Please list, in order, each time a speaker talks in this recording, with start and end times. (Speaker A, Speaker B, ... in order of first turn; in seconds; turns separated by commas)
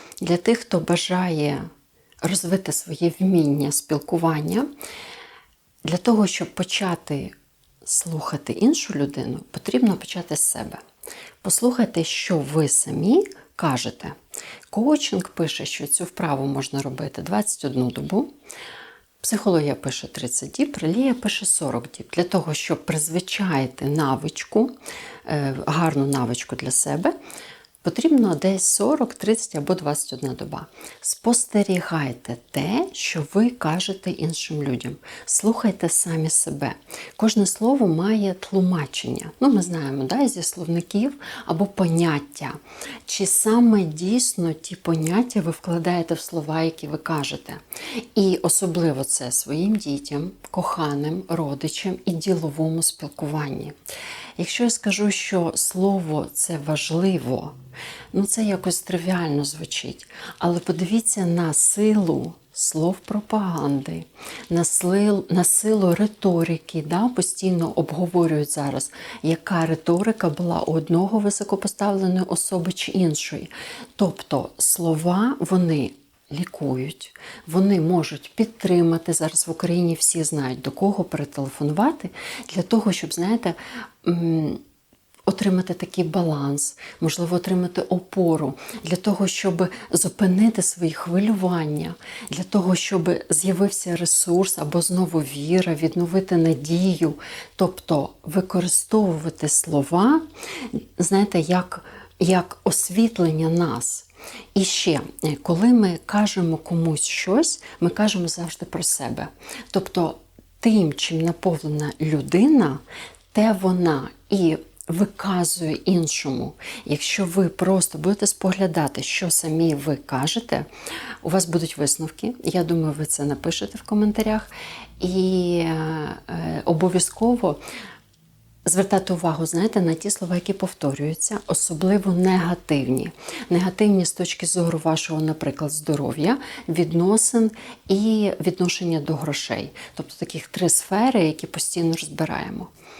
Speaker A: 0.2-1.7, Speaker A: 2.2-4.7, Speaker A: 5.8-10.8, Speaker A: 11.4-14.2, Speaker A: 14.7-18.3, Speaker A: 19.2-24.7, Speaker A: 25.2-27.1, Speaker A: 27.8-53.8, Speaker A: 54.4-57.5, Speaker A: 58.1-84.6, Speaker A: 85.3-112.8, Speaker A: 113.3-120.7, Speaker A: 121.2-124.5, Speaker A: 125.0-127.6, Speaker A: 128.7-142.7